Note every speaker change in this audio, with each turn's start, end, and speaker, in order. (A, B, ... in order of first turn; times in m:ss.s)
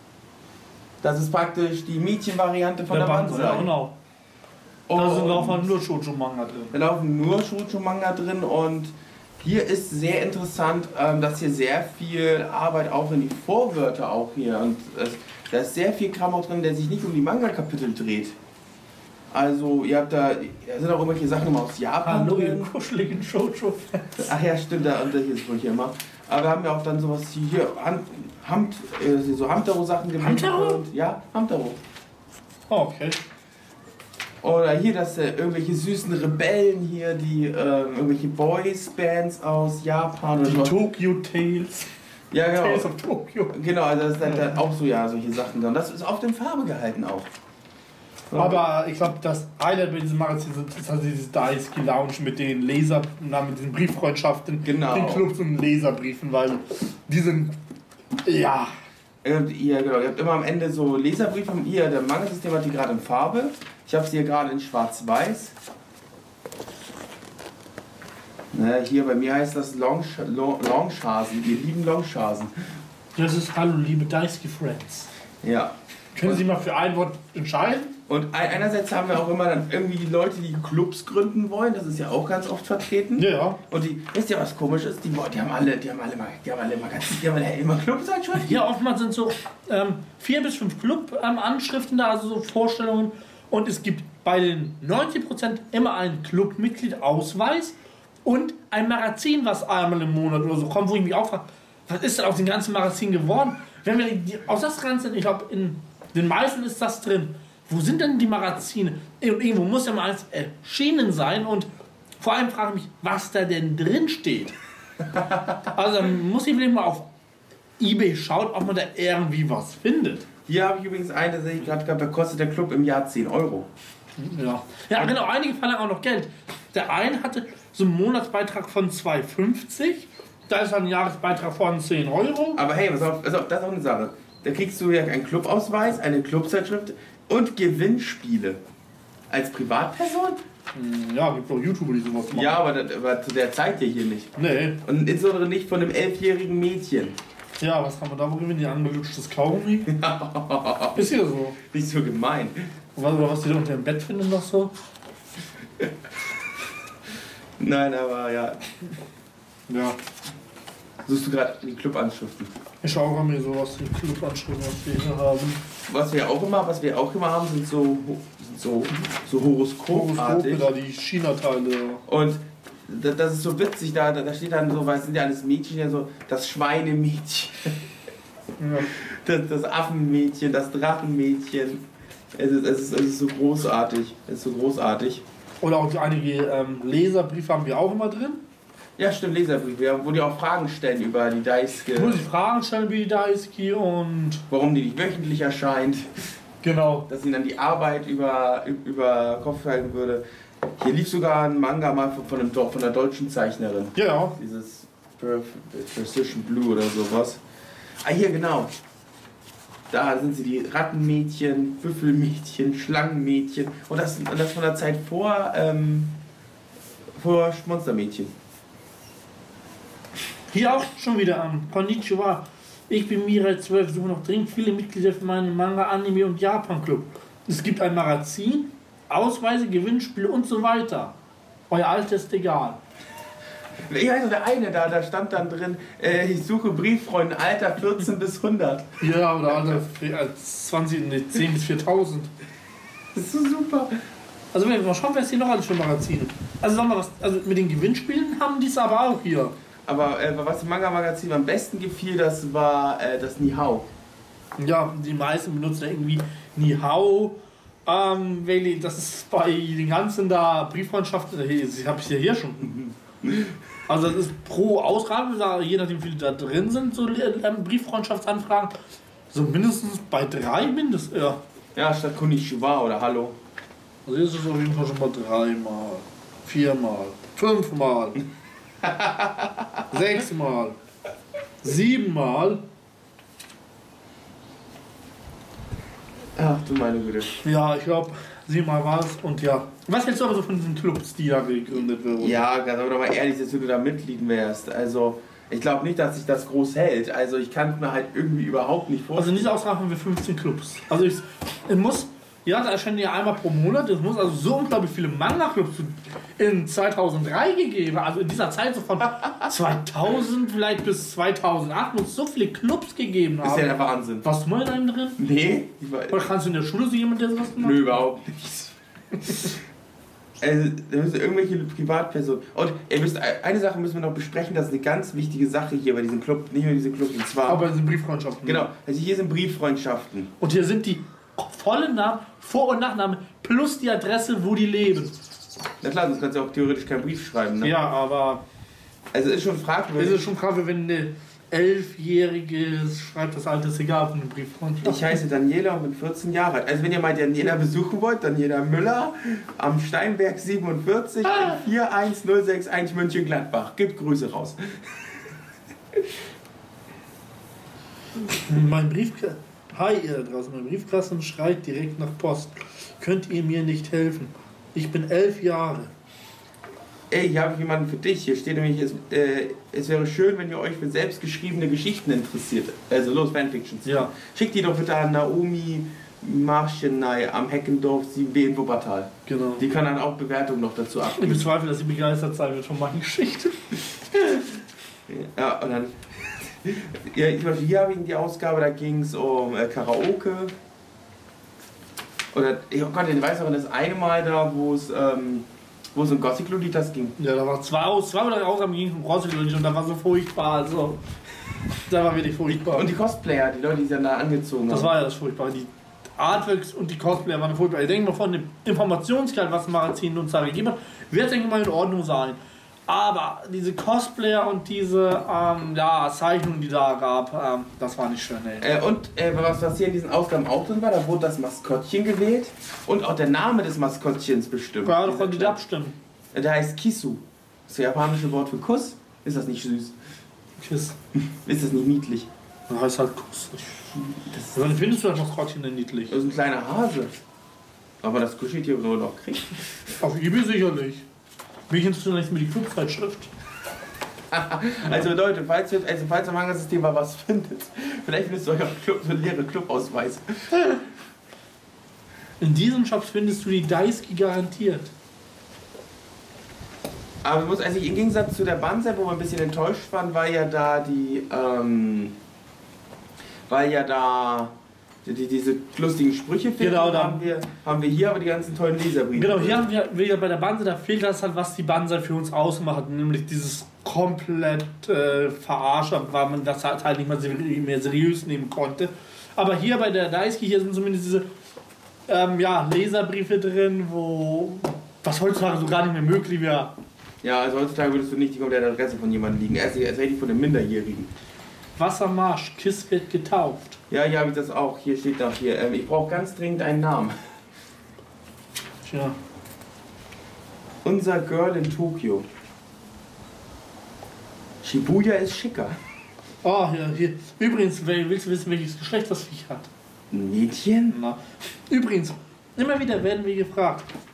0:01.0-0:03.7 A
0:02.9-0:03.9 B
0:04.9-0:05.7 A
0:05.0-0:06.8 B
0:06.7-0:18.4 A
0:19.3-0:22.7 A
0:22.0-0:24.3 B
0:24.2-0:31.8 A
0:30.2-0:30.8 B
0:32.7-0:33.2 B
0:34.4-0:40.8 A
0:40.4-0:41.9 B
0:42.3-0:42.9 A
0:42.6-0:43.6 B
0:43.5-0:47.3 A
0:48.3-0:48.6 A
0:48.3-0:57.6 B
0:54.6-0:55.3 A
0:58.2-0:58.7 B
0:59.2-1:05.5 A
1:08.5-1:12.5 A
1:13.2-1:15.1 B
1:15.4-1:16.4 A
1:16.1-1:17.9 B
1:18.1-1:28.6 A
1:23.2-1:23.6 B
1:28.4-1:54.5 B
1:55.1-1:55.6 A
1:55.7-1:57.1 B
1:57.8-2:00.2 B
2:00.5-2:03.7 A
2:04.2-2:12.6 B
2:12.5-2:18.6 A
2:19.3-2:20.4 A
2:20.8-2:22.6 B
2:22.3-2:24.3 A
2:24.4-2:24.8 B
2:24.8-2:27.2 A
2:27.6-2:29.9 B
2:29.9-2:31.0 A
2:30.9-2:31.6 B
2:31.7-2:32.7 A
2:33.0-2:34.7 B
2:37.6-2:38.6 A
2:39.7-2:40.0 B
2:41.0-2:42.5 A
2:42.8-2:45.6 B
2:45.9-2:50.7 A
2:49.9-2:52.0 B
2:52.1-2:57.7 A
2:58.6-2:58.9 B
2:58.9-3:01.8 A
3:02.3-3:05.2 A
3:05.6-3:08.4 B
3:09.0-3:12.2 A
3:11.9-3:14.4 B
3:14.5-3:16.1 A
3:16.6-3:17.1 B
3:17.1-3:20.2 A
3:20.8-3:27.4 A
3:23.9-3:24.3 B
3:28.0-3:28.7 A
3:29.9-3:36.2 A
3:37.2-3:38.3 A
3:40.5-3:51.2 B
3:51.7-3:52.8 B
3:53.9-3:58.8 A
3:59.0-4:02.3 B
4:03.1-4:04.0 A
4:04.5-4:09.5 B
4:09.9-4:13.9 A
4:14.6-4:22.8 B
4:22.8-4:23.6 A
4:23.9-4:28.7 B
4:29.3-4:31.4 B
4:31.8-4:33.4 A
4:34.1-4:38.2 B
4:38.9-4:39.5 A
4:39.9-4:40.8 B
4:41.6-4:42.6 B
4:46.4-4:47.3 A
4:47.4-4:52.4 B
4:52.2-4:59.5 A
4:59.1-5:13.7 B
5:13.4-5:14.2 A
5:14.2-5:15.2 B
5:15.2-5:16.3 A
5:16.1-5:17.9 B
5:17.6-5:18.8 A
5:20.4-5:27.6 A
5:27.4-5:28.7 B
5:28.4-5:30.3 A
5:30.4-5:35.1 B
5:35.8-5:37.7 A
5:37.6-5:38.4 B
5:39.1-5:40.2 A
5:40.0-5:45.2 B
5:44.8-5:54.6 A
5:58.2-6:05.9 B
6:07.1-6:21.4 A
6:13.8-6:14.1 B
6:19.3-6:19.6 B
6:21.1-6:23.9 B
6:25.1-6:26.0 A
6:26.6-6:30.5 A
6:32.3-6:37.2 A
6:37.2-6:41.0 B
6:41.9-6:42.9 B
6:42.5-6:44.9 A
6:44.7-6:58.7 B
6:58.6-7:05.6 A
7:04.8-7:06.0 B
7:06.3-7:09.9 A
7:10.6-7:11.0 B
7:11.4-7:12.3 A
7:12.7-7:13.9 B
7:14.1-7:14.7 A
7:14.5-7:16.1 B
7:16.1-7:17.1 A
7:18.0-7:19.8 A
7:20.0-7:21.0 B
7:21.7-7:23.3 B
7:24.3-7:30.8 A
7:32.4-7:34.9 B
7:37.2-7:42.2 A
7:43.5-7:44.5 A
7:45.0-7:49.6 A
7:46.6-7:47.2 B
7:49.1-8:01.2 B
8:02.1-8:06.7 B
8:07.2-8:11.1 A
8:11.8-8:13.8 B
8:13.9-8:17.1 A
8:18.8-8:19.2 B
8:20.8-8:22.2 A
8:24.6-8:25.8 A
8:26.4-8:29.7 B
8:30.1-8:31.0 A
8:30.9-8:33.9 B